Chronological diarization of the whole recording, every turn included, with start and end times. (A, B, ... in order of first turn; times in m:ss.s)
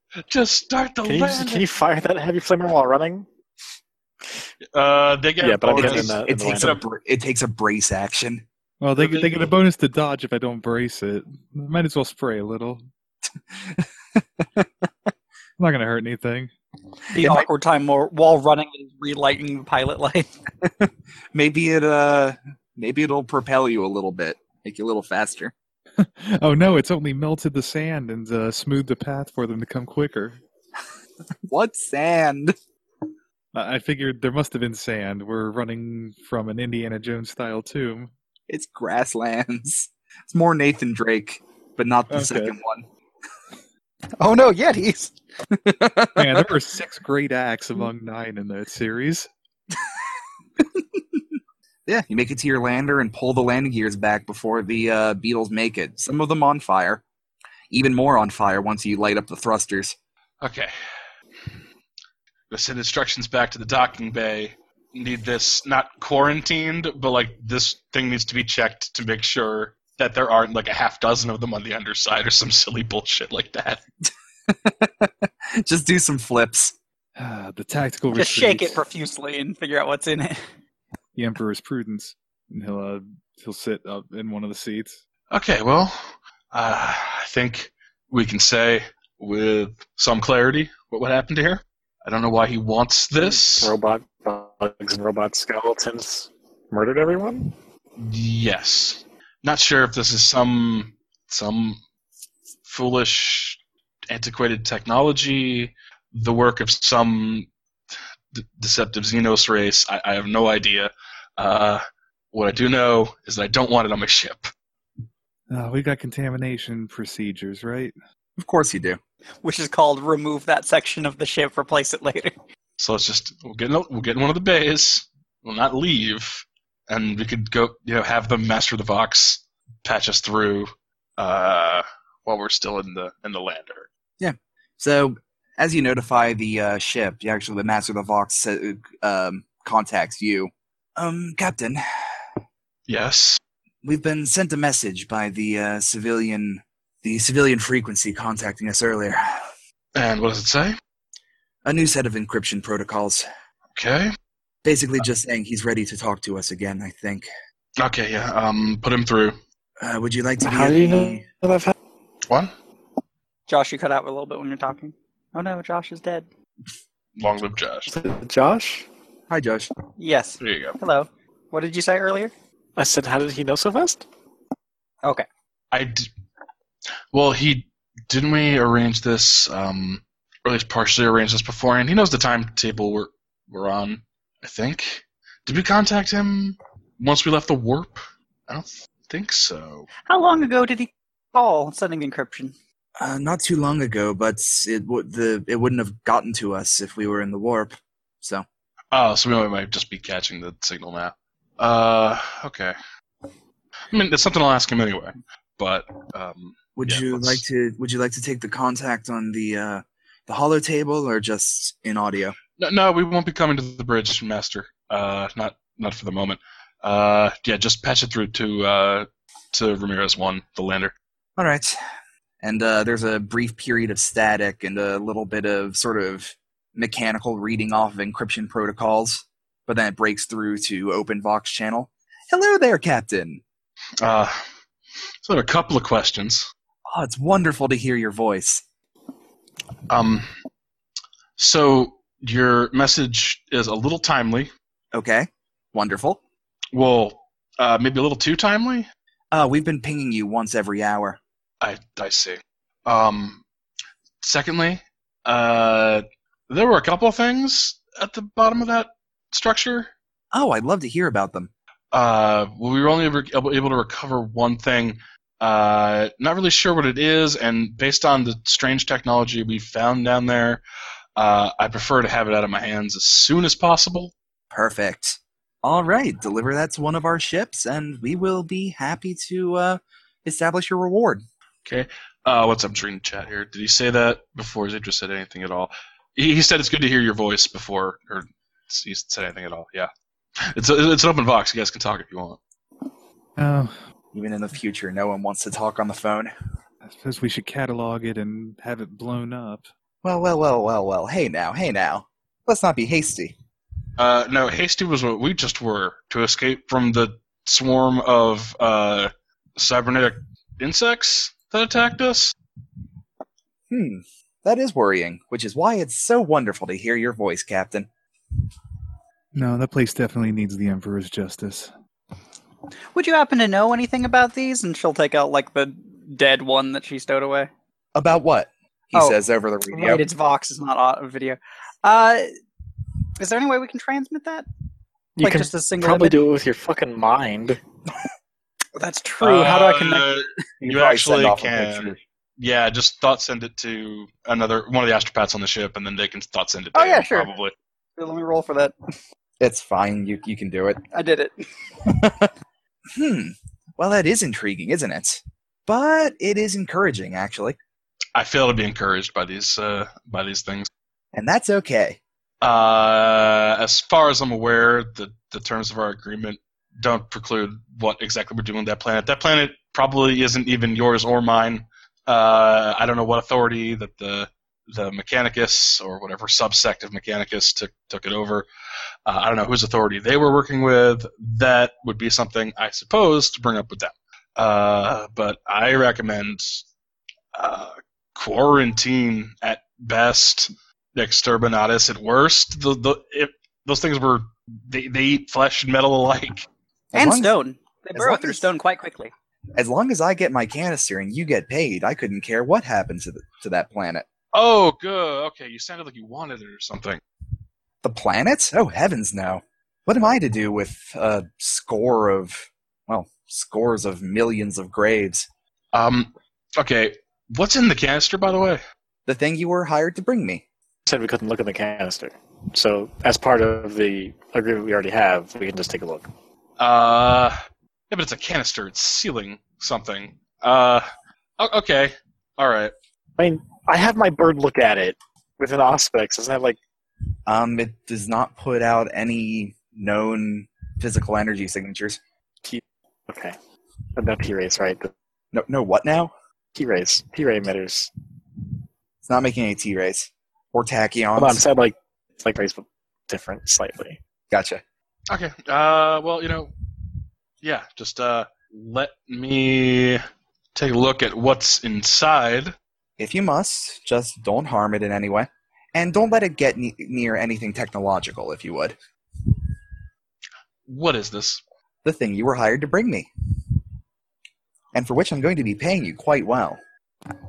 0:00.3-0:01.7 A
0:01.0-0:03.3 B
0:04.7-0:06.8 A
0:05.4-0:06.8 B
0:05.7-0:08.4 C
0:08.8-0:12.8 D
0:09.0-0:09.5 A
0:13.5-0:14.6 C
0:15.6-0:16.5 D
0:17.1-0:20.3 E
0:17.2-0:17.5 C
0:20.6-0:25.5 C
0:26.0-0:30.4 D
0:31.5-0:32.5 C
0:33.5-0:38.1 D
0:38.5-0:42.8 C
0:42.1-0:42.6 D
0:44.2-0:45.1 E
0:45.6-0:46.5 C
0:46.2-0:49.3 D
0:50.6-0:51.2 C
0:51.8-0:57.0 C
0:57.7-1:00.0 C
1:00.4-1:00.7 A
1:02.5-1:13.8 A
1:14.5-1:16.7 C
1:17.2-1:18.8 D
1:18.1-1:20.4 E
1:21.1-1:25.0 D
1:25.3-1:33.8 A
1:33.2-1:37.5 B
1:38.0-1:41.8 A
1:42.6-1:47.5 A
1:48.3-1:54.5 A
1:55.5-1:57.9 D
1:58.4-1:59.0 C
1:59.4-2:02.3 E
2:02.8-2:13.9 A
2:14.2-2:21.8 C
2:22.9-2:23.4 A
2:23.8-2:29.5 C
2:29.9-2:30.7 A
2:31.6-2:33.2 C
2:33.8-2:34.1 A
2:34.6-2:37.3 C
2:37.8-2:39.4 A
2:39.8-2:41.2 C
2:40.4-2:41.7 B
2:43.5-2:46.2 E
2:47.2-2:47.9 A
2:47.9-2:48.9 B
2:49.3-2:49.7 C
2:50.0-2:52.3 E
2:50.4-2:50.8 A
2:52.8-2:54.0 B
2:55.7-2:56.1 A
2:57.1-3:09.9 A
3:10.1-3:12.5 E
3:13.0-3:18.4 C
3:18.9-3:22.8 A
3:23.9-3:27.4 A
3:26.8-3:32.4 C
3:32.6-3:40.9 A
3:41.4-3:41.8 C
3:42.4-3:53.4 C
3:54.0-3:54.4 A
3:55.2-3:56.5 A
3:56.9-3:58.6 C
3:59.9-4:00.3 A
4:01.4-4:04.5 A
4:04.9-4:06.2 C
4:06.7-4:08.9 A
4:09.3-4:11.2 C
4:11.6-4:13.4 A
4:14.2-4:19.9 A
4:20.3-4:21.5 C
4:21.9-4:30.6 A
4:31.2-4:34.1 A
4:34.5-4:41.2 C
4:41.6-4:49.9 A
4:50.5-4:52.4 A
4:53.4-4:53.7 D
4:54.1-4:56.3 C
4:56.8-4:59.7 D
5:00.0-5:03.4 C
5:04.0-5:12.3 A
5:13.7-5:17.9 C
5:19.3-5:21.7 D
5:22.9-5:27.5 E
5:27.9-5:30.0 C
5:29.7-5:32.3 E
5:33.2-5:34.4 E
5:35.2-5:37.6 B
5:35.2-5:36.2 E
5:38.8-5:40.1 E
5:39.2-5:47.5 A
5:40.6-5:42.0 C
5:46.7-5:47.3 E
5:48.0-5:48.7 E
5:49.4-5:50.8 C
5:50.9-5:51.3 E
5:51.8-5:52.3 C
5:52.9-5:57.6 C
5:58.1-6:00.7 A
6:01.1-6:02.0 C
6:02.4-6:18.5 A
6:19.0-6:26.6 A
6:27.3-6:36.5 A
6:36.9-6:37.3 C
6:36.9-6:39.1 E
6:37.9-6:38.5 C
6:39.6-6:44.1 C
6:44.3-6:47.0 A
6:47.8-6:55.3 C
6:55.7-6:58.6 A
6:59.0-7:00.4 C
7:00.8-7:06.1 B
7:06.6-7:07.3 A
7:07.9-7:10.8 A
7:11.4-7:12.7 A
7:13.2-7:16.6 B
7:17.3-7:22.0 C
7:22.4-7:23.4 B
7:24.0-7:24.9 B
7:25.3-7:26.1 C
7:26.5-7:27.9 B
7:29.0-7:31.4 C
7:31.2-7:34.0 B
7:34.3-7:34.6 C
7:35.1-7:36.5 A
7:37.4-7:40.0 A
7:40.5-7:42.5 A
7:43.0-7:48.8 C
7:50.7-7:51.4 A
7:51.8-7:53.1 C
7:54.7-7:56.6 C